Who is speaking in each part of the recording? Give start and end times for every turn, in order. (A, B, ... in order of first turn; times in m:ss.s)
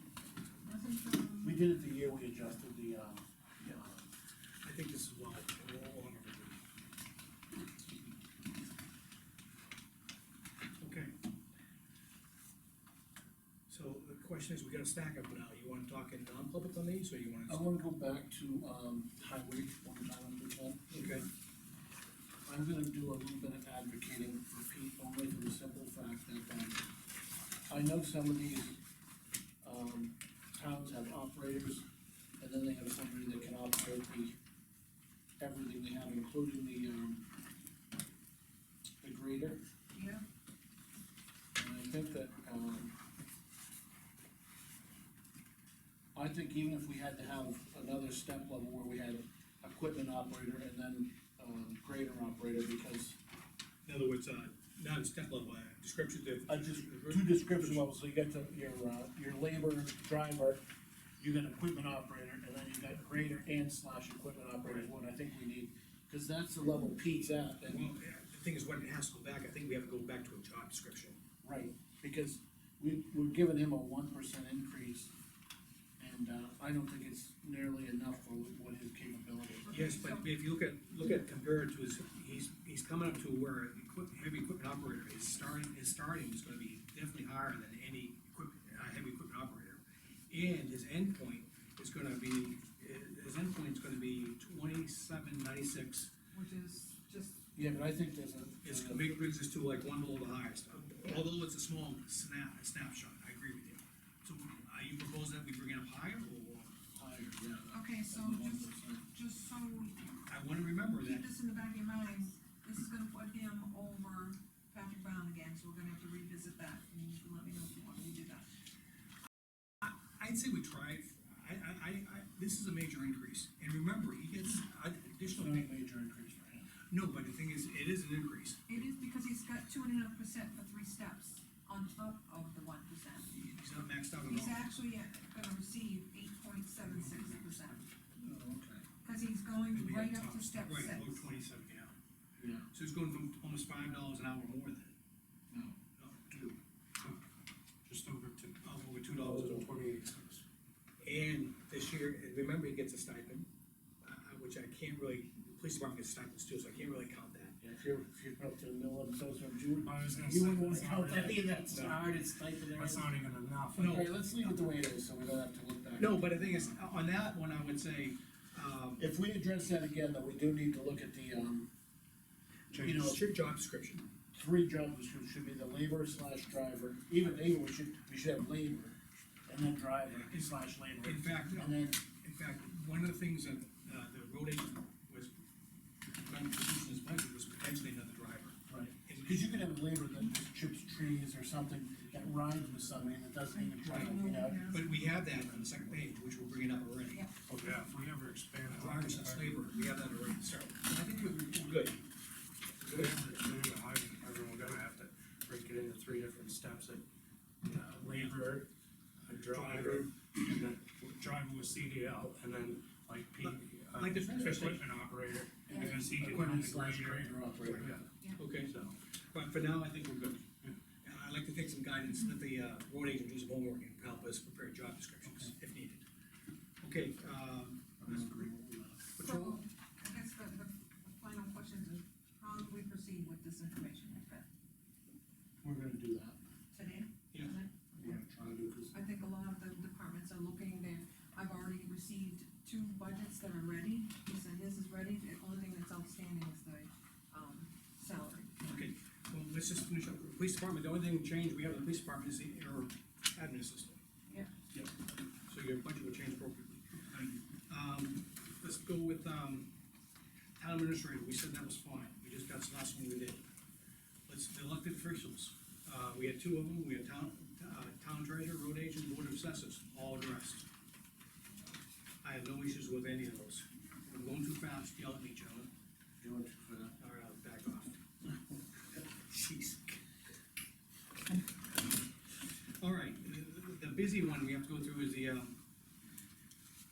0:00.6-0:01.6 A
0:01.4-0:04.1 B
0:04.6-0:06.6 C
0:10.8-0:11.1 C
0:13.7-0:17.7 C
0:17.5-0:21.2 B
0:20.9-0:21.3 C
0:22.4-0:26.8 B
0:27.7-0:28.8 B
0:29.6-0:31.8 B
0:32.4-0:34.3 B
0:35.4-0:37.2 B
0:39.0-0:39.6 B
0:39.9-0:40.2 A
0:41.6-0:42.9 B
0:46.1-0:53.2 B
0:53.8-0:57.8 C
0:56.5-1:00.6 B
1:01.2-1:07.8 B
1:04.6-1:04.9 C
1:07.6-1:11.2 C
1:11.4-1:15.1 B
1:16.0-1:19.8 B
1:19.6-1:20.3 A
1:19.7-1:36.1 C
1:36.3-1:37.4 A
1:37.5-1:39.3 B
1:38.6-1:46.7 C
1:46.9-1:49.0 B
1:47.7-1:50.2 A
1:50.3-1:51.3 C
1:51.0-1:58.5 A
1:59.8-2:05.7 C
2:05.2-2:06.7 B
2:06.9-2:08.6 C
2:08.7-2:13.6 A
2:13.6-2:14.6 C
2:14.2-2:17.8 A
2:16.8-2:17.8 D
2:18.2-2:18.8 B
2:19.0-2:21.3 A
2:19.7-2:20.9 D
2:20.6-2:21.9 C
2:22.4-2:22.7 B
2:22.7-2:24.9 C
2:25.5-2:25.8 B
2:26.0-2:26.3 C
2:26.3-2:26.6 B
2:27.8-2:28.6 D
2:28.6-2:29.7 C
2:29.2-2:29.7 B
2:29.3-2:30.4 D
2:31.0-2:33.5 C
2:34.0-2:37.6 C
2:37.6-2:46.8 B
2:39.8-2:42.0 D
2:41.7-2:42.0 C
2:42.6-2:44.0 D
2:43.7-2:44.4 C
2:46.0-2:49.0 C
2:49.0-2:51.7 B
2:52.7-2:53.2 D
2:52.8-2:53.2 B
2:52.8-2:54.1 C
2:54.3-3:02.0 B
3:00.1-3:05.3 C
3:06.2-3:09.6 C
3:08.7-3:14.7 B
3:13.5-3:14.9 A
3:13.9-3:17.2 C
3:17.5-3:19.6 D
3:18.7-3:22.0 C
3:22.8-3:23.3 C
3:22.9-3:27.0 D
3:27.6-3:28.7 D
3:29.3-3:38.1 D
3:33.4-3:34.8 C
3:35.7-3:38.0 B
3:37.6-3:38.7 C
3:38.6-3:39.0 D
3:39.3-3:40.5 C
3:41.0-3:46.0 C
3:45.2-3:45.5 D
3:46.8-3:48.5 C
3:48.0-3:49.2 B
3:49.2-3:49.6 C
3:49.2-3:54.5 A
3:55.6-3:56.4 B
3:56.7-3:57.8 A
3:58.0-3:59.0 B
3:58.9-4:08.8 A
4:08.6-4:14.0 C
4:15.5-4:19.7 C
4:20.6-4:23.4 C
4:24.3-4:30.6 C
4:32.2-4:35.7 C
4:36.2-4:36.9 B
4:37.0-4:38.0 C
4:39.0-4:40.0 C
4:42.8-4:45.6 C